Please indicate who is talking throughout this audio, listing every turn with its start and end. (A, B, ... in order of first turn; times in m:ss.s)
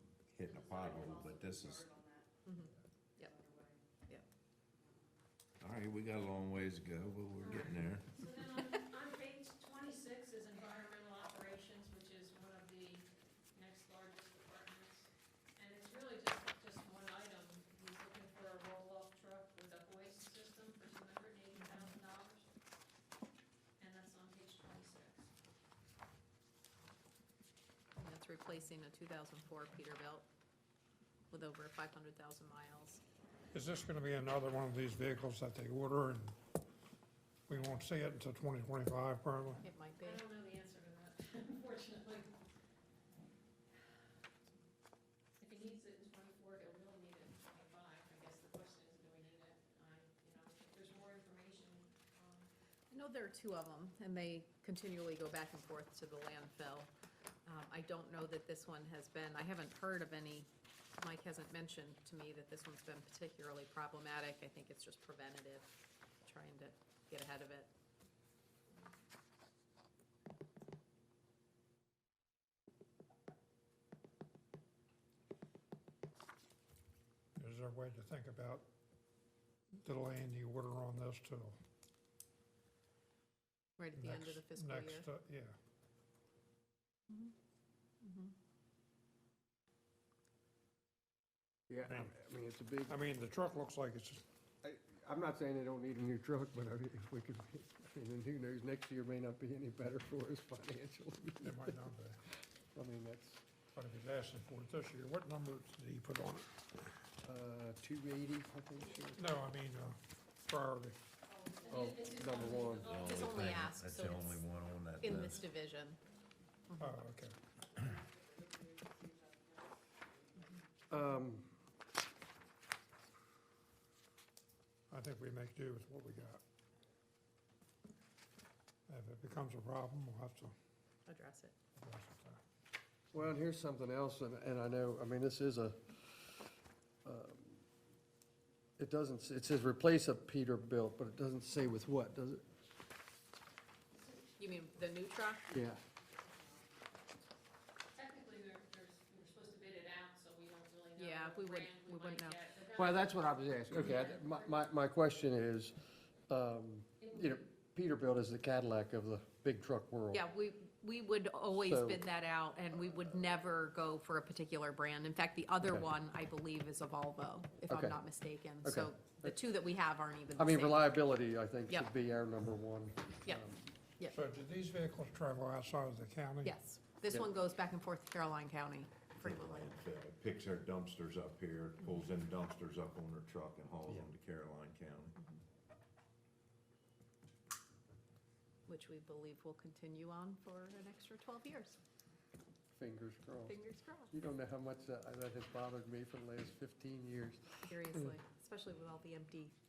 0:00.3-0:01.9 A
0:02.4-0:03.5 B
0:05.6-0:08.2 A
0:07.4-0:22.5 C
0:21.6-0:21.9 B
0:23.8-0:25.3 C
0:28.0-0:30.3 B
0:31.3-0:33.0 B
0:33.5-0:36.4 D
0:37.5-0:39.7 D
0:39.6-0:40.2 B
0:40.0-0:42.3 C
0:45.4-0:52.5 C
0:52.9-0:56.9 B
0:57.5-1:07.7 B
1:17.4-1:18.7 D
1:19.8-1:21.6 D
1:23.8-1:25.1 B
1:24.0-1:25.5 D
1:28.0-1:28.3 B
1:31.7-1:33.0 E
1:32.9-1:34.2 D
1:34.6-1:41.8 E
1:41.4-1:42.2 D
1:42.7-1:43.4 E
1:43.8-1:46.5 D
1:47.2-1:49.3 E
1:49.2-1:51.0 D
1:51.3-1:53.7 C
1:51.7-1:52.9 E
1:52.9-1:55.4 A
1:52.9-1:54.4 B
1:55.0-1:56.0 B
1:56.7-1:57.0 B
1:56.8-1:57.4 D
2:00.9-2:01.5 E
2:04.9-2:06.4 D
2:08.9-2:10.5 D
2:11.1-2:11.6 B
2:11.8-2:12.4 D
2:13.1-2:16.5 E
2:17.0-2:17.6 E
2:18.8-2:22.4 E
2:24.4-2:25.5 B
2:25.5-2:25.8 E
2:28.0-2:34.5 C
2:31.0-2:32.4 B
2:32.8-2:35.8 E
2:36.3-2:40.2 E
2:37.0-2:37.4 C
2:40.1-2:50.9 B
2:41.6-2:42.0 E
2:47.7-2:48.0 E
2:48.6-2:49.4 E
2:50.4-2:53.8 E
2:54.1-2:56.5 D
2:56.4-2:59.8 B
2:59.2-3:05.2 A
3:08.7-3:11.8 B
3:12.8-3:18.1 E
3:13.5-3:14.1 B
3:17.7-3:19.5 B